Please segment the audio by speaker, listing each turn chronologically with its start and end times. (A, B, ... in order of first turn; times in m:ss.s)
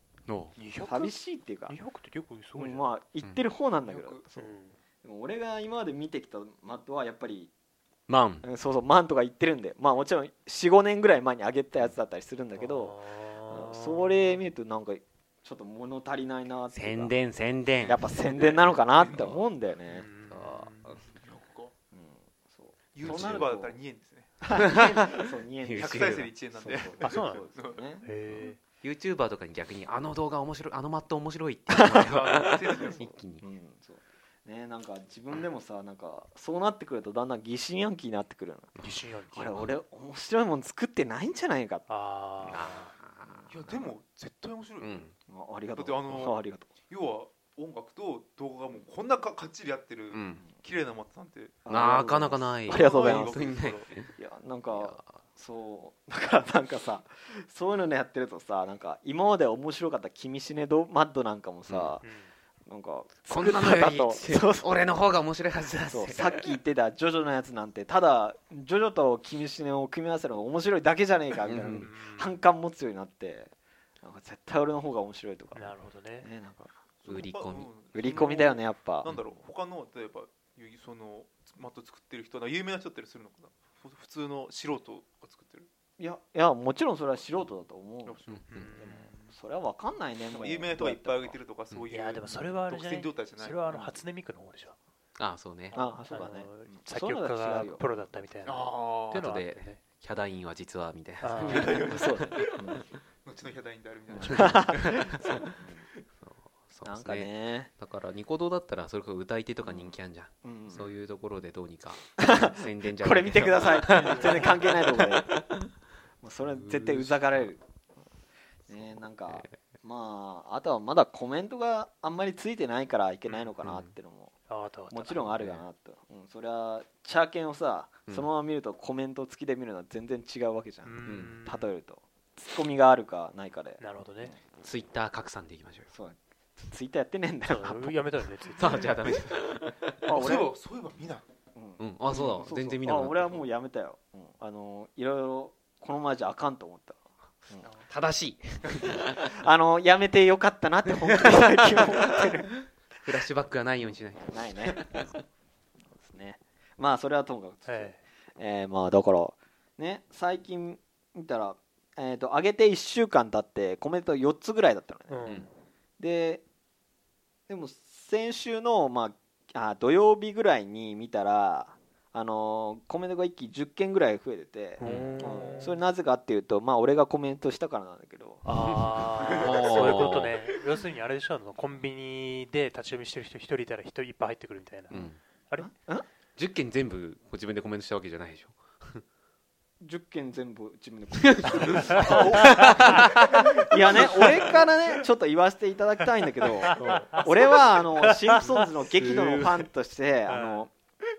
0:00.3-0:00.6 A
0:00.6-0:02.9 B
0:00.8-0:01.7 C
0:02.6-0:04.5 C
0:03.8-0:04.3 D
0:04.4-0:04.8 B
0:05.0-0:07.5 C
0:08.1-0:08.5 A
0:08.4-0:17.1 C
0:12.6-0:14.4 B
0:16.7-0:18.1 A
0:17.8-0:20.1 C
0:18.3-0:19.4 D
0:19.9-0:20.7 B
0:20.3-0:21.1 A
0:20.8-0:21.7 D
0:21.9-0:23.8 C
0:22.9-0:24.9 D
0:23.1-0:23.5 A
0:24.4-0:28.1 C
0:24.5-0:26.3 A
0:25.8-0:27.9 D
0:27.0-0:27.5 B
0:28.0-0:28.6 B
0:28.8-0:33.4 A
0:31.7-0:32.1 C
0:32.0-0:33.1 D
0:32.9-0:38.8 C
0:38.8-0:39.7 B
0:39.3-0:41.9 C
0:41.9-0:42.7 B
0:42.4-0:43.6 A
0:43.5-0:45.1 D
0:44.8-0:45.1 A
0:45.3-0:46.7 C
0:45.7-0:51.7 D
0:50.1-0:50.4 A
0:51.7-0:53.4 C
0:51.7-0:54.1 A
0:52.7-0:53.9 D
0:54.2-1:02.0 C
0:54.7-0:55.1 A
1:01.7-1:02.0 A
1:02.0-1:02.3 B
1:02.7-1:04.7 C
1:03.3-1:06.4 A
1:05.9-1:16.7 C
1:11.5-1:11.9 A
1:11.7-1:12.3 B
1:15.5-1:16.3 B
1:17.0-1:25.7 D
1:17.1-1:17.9 A
1:17.9-1:19.1 C
1:26.0-1:28.2 C
1:28.0-1:29.3 D
1:28.3-1:28.7 A
1:28.5-1:29.2 B
1:28.8-1:31.4 C
1:30.3-1:34.0 D
1:31.9-1:34.8 B
1:35.2-1:35.8 A
1:35.7-1:37.9 C
1:35.8-1:39.8 B
1:38.4-1:39.2 D
1:39.1-1:42.5 A
1:41.2-1:41.9 B
1:41.4-1:42.1 D
1:41.8-1:42.8 C
1:43.2-1:45.0 D
1:44.2-1:45.5 A
1:44.2-1:45.9 C
1:46.2-1:55.6 A
1:46.9-1:47.7 C
1:49.6-1:50.9 C
1:52.2-1:55.4 C
1:54.0-1:54.5 D
1:54.2-1:54.6 B
1:56.2-1:57.6 C
1:56.5-1:57.4 A
1:58.7-2:04.3 C
2:03.6-2:03.9 A
2:04.5-2:05.4 B
2:04.9-2:14.4 C
2:10.8-2:11.7 B
2:11.0-2:11.4 A
2:13.8-2:14.4 B
2:14.6-2:15.9 A
2:15.9-2:18.1 C
2:17.4-2:19.0 B
2:18.5-2:20.0 A
2:20.0-2:20.5 C
2:20.1-2:21.3 D
2:21.6-2:27.7 C
2:21.8-2:23.4 A
2:27.6-2:27.9 D
2:27.9-2:29.2 A
2:29.2-2:32.6 C
2:31.2-2:31.8 A
2:33.0-2:35.2 A
2:34.2-2:34.8 C
2:36.0-2:45.3 C
2:37.7-2:38.0 B
2:45.1-2:45.5 B
2:46.0-2:46.4 C
2:47.5-2:58.5 C
2:54.8-2:55.8 B
2:54.8-2:55.3 A
2:58.4-3:05.7 B
2:59.3-3:00.1 D
2:59.4-3:00.3 A
3:04.9-3:05.2 A
3:05.6-3:06.0 C
3:06.4-3:09.0 A
3:09.8-3:20.7 C
3:11.3-3:13.5 A
3:11.9-3:13.1 D
3:14.1-3:14.6 D
3:16.6-3:17.2 B
3:16.8-3:17.2 A
3:18.0-3:18.4 B
3:18.6-3:19.6 A
3:20.3-3:20.7 B